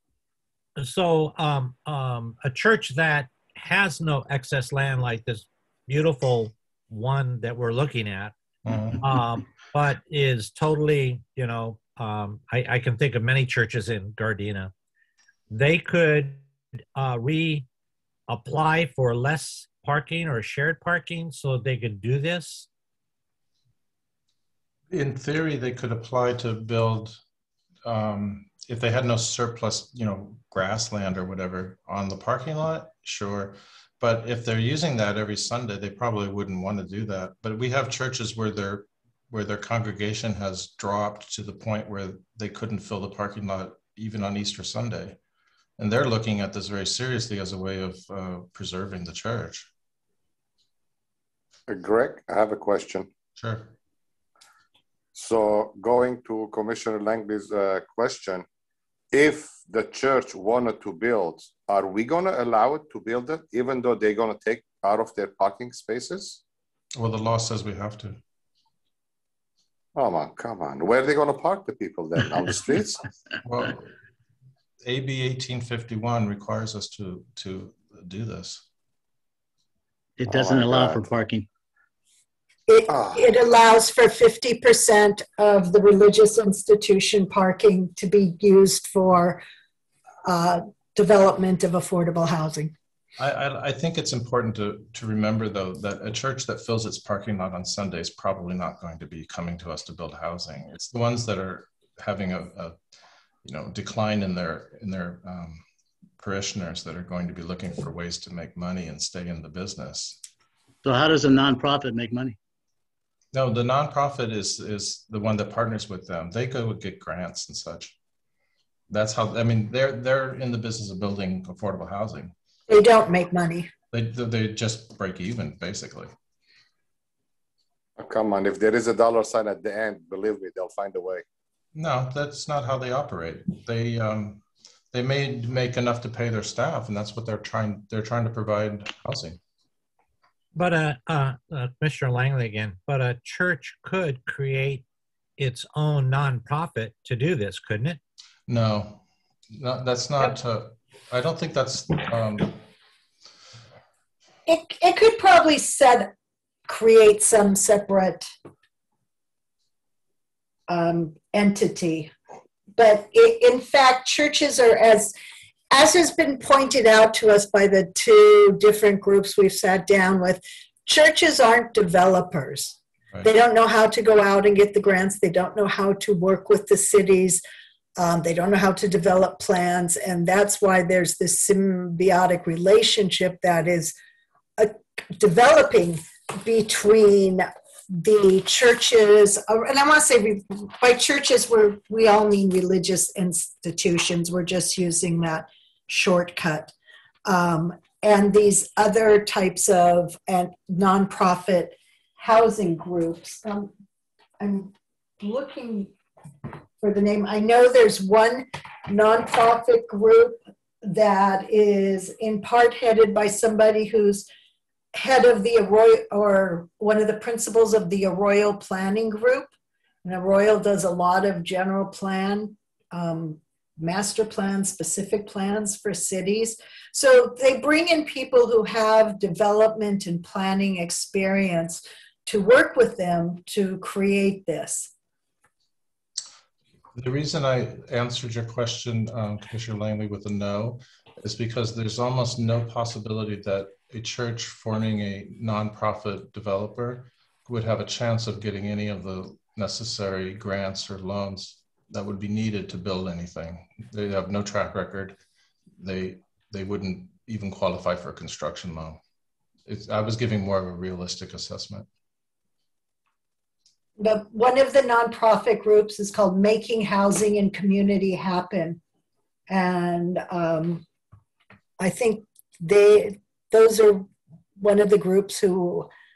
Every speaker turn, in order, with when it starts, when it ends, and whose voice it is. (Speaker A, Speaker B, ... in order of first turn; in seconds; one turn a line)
Speaker A: 0.8-8.3
Speaker B: 8.7-9.1
Speaker A: 9.0-14.7
Speaker A: 15.5-16.4
Speaker A: 17.0-17.7
Speaker A: 18.3-22.7
Speaker B: 24.9-27.2
Speaker B: 27.9-45.2
Speaker B: 45.8-49.7
Speaker C: 51.7-53.1
Speaker B: 53.4-53.7
Speaker C: 55.1-58.5
Speaker C: 59.1-66.4
Speaker B: 67.0-68.2
Speaker C: 70.0-73.0
Speaker B: 73.4-73.9
Speaker B: 74.8-78.6
Speaker D: 80.2-81.5
Speaker C: 80.3-81.0
Speaker E: 82.7-89.4
Speaker C: 82.9-83.3
Speaker E: 90.3-92.7
Speaker B: 93.2-102.8
Speaker B: 103.4-105.6
Speaker B: 106.2-110.2
Speaker D: 110.8-112.4
Speaker B: 113.3-118.0
Speaker B: 118.9-122.3
Speaker E: 122.7-123.7
Speaker B: 123.9-126.1
Speaker C: 128.0-131.2
Speaker B: 131.8-139.4
Speaker A: 140.6-144.8
Speaker A: 145.4-148.0
Speaker B: 148.5-152.6
Speaker E: 154.5-156.1
Speaker E: 156.7-158.3
Speaker E: 160.7-162.1
Speaker E: 162.8-165.1
Speaker E: 165.7-177.4
Speaker E: 178.0-183.9
Speaker E: 184.6-196.7
Speaker E: 197.3-203.7
Speaker E: 204.4-205.9
Speaker E: 206.8-214.3
Speaker E: 214.9-219.5
Speaker E: 220.0-234.9
Speaker B: 236.9-255.2
Speaker B: 255.8-259.0
Speaker B: 259.7-261.9
Speaker E: 264.0-268.8
Speaker E: 269.5-270.8
Speaker E: 271.8-274.1
Speaker E: 274.6-275.9